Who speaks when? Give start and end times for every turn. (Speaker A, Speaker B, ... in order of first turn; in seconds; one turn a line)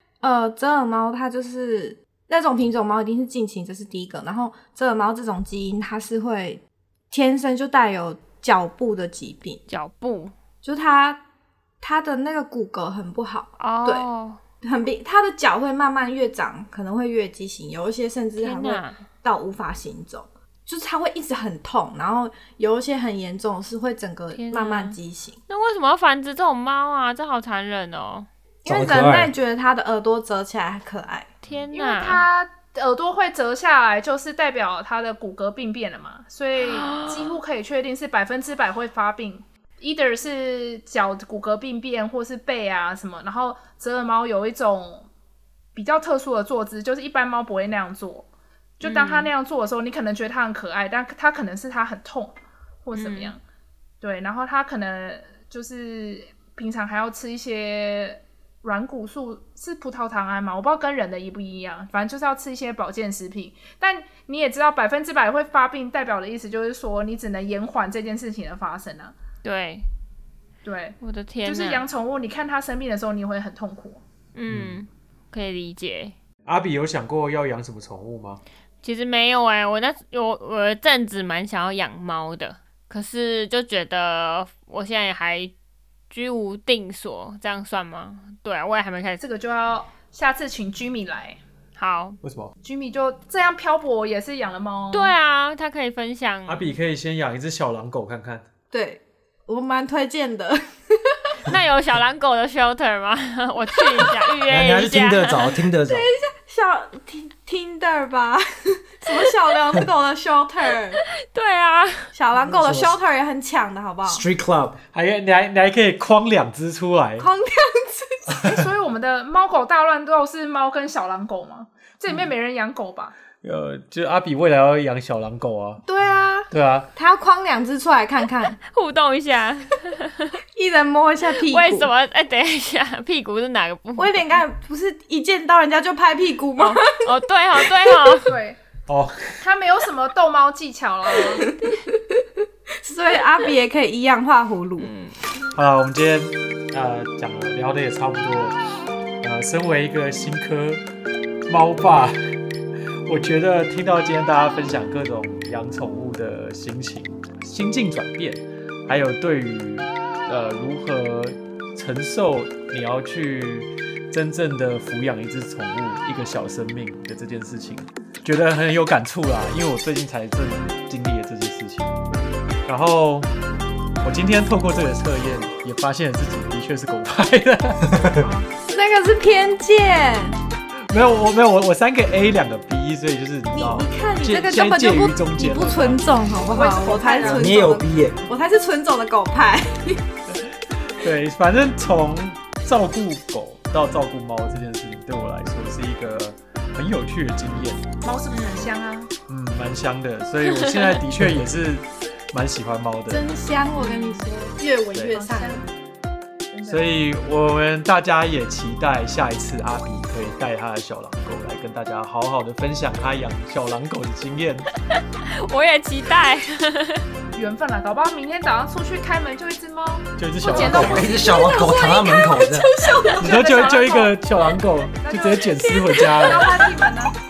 Speaker A: 0.2-9.6
Speaker B: 9.7-10.3
Speaker A: 10.6-11.2
Speaker A: 11.8-14.1
Speaker B: 13.6-14.4
Speaker A: 14.6-25.4
Speaker B: 18.4-19.0
Speaker B: 24.3-28.3
Speaker A: 28.6-31.3
Speaker C: 28.7-29.3
Speaker B: 31.4-32.2
Speaker D: 31.7-45.1
Speaker B: 36.6-37.4
Speaker D: 45.8-48.3
Speaker D: 48.8-53.4
Speaker B: 48.8-49.3
Speaker B: 52.9-53.4
Speaker D: 54.0-69.1
Speaker B: 69.4-69.9
Speaker D: 70.6-74.0
Speaker B: 71.0-71.8
Speaker B: 74.3-76.2
Speaker C: 74.5-74.8
Speaker E: 76.5-78.4
Speaker B: 78.8-85.5
Speaker B: 86.1-89.2
Speaker D: 89.2-91.4
Speaker B: 91.8-92.2
Speaker E: 92.2-92.5
Speaker D: 92.6-95.2
Speaker B: 94.9-96.8
Speaker E: 96.5-98.5
Speaker A: 98.7-101.2
Speaker B: 101.5-105.5
Speaker C: 104.5-106.1
Speaker A: 105.8-111.0
Speaker B: 111.2-112.1
Speaker A: 112.1-114.2
Speaker C: 112.3-113.0
Speaker C: 114.1-114.8
Speaker E: 114.9-117.3
Speaker A: 117.2-118.4
Speaker D: 118.4-123.2
Speaker E: 123.4-125.8
Speaker A: 125.8-128.6
Speaker E: 126.5-126.9
Speaker B: 128.6-130.4
Speaker A: 130.6-131.9
Speaker B: 131.4-134.3
Speaker A: 134.0-138.3
Speaker B: 136.6-138.3
Speaker D: 138.3-138.6
Speaker E: 138.9-139.4
Speaker D: 139.4-141.4
Speaker A: 141.1-142.3
Speaker A: 142.8-144.9
Speaker B: 144.8-145.2
Speaker E: 145.5-148.6
Speaker E: 149.2-150.8
Speaker E: 151.5-152.3
Speaker E: 153.1-172.0
Speaker E: 172.7-173.3
Speaker E: 174.0-178.2
Speaker A: 178.6-180.4
Speaker E: 180.9-186.1
Speaker A: 183.5-190.1
Speaker D: 186.4-187.6
Speaker C: 187.2-188.2
Speaker E: 190.3-197.9
Speaker D: 198.0-199.1
Speaker B: 198.3-198.7
Speaker E: 199.3-203.3
Speaker B: 200.5-201.0
Speaker A: 203.1-205.7
Speaker B: 203.8-204.3
Speaker D: 205.1-205.7
Speaker D: 206.5-206.9
Speaker E: 206.7-214.7
Speaker B: 215.0-217.1
Speaker D: 217.3-221.8
Speaker E: 220.2-221.2
Speaker A: 220.4-223.4
Speaker C: 220.5-222.7
Speaker D: 223.1-224.2
Speaker E: 223.2-226.6
Speaker D: 225.0-227.1
Speaker A: 225.7-226.9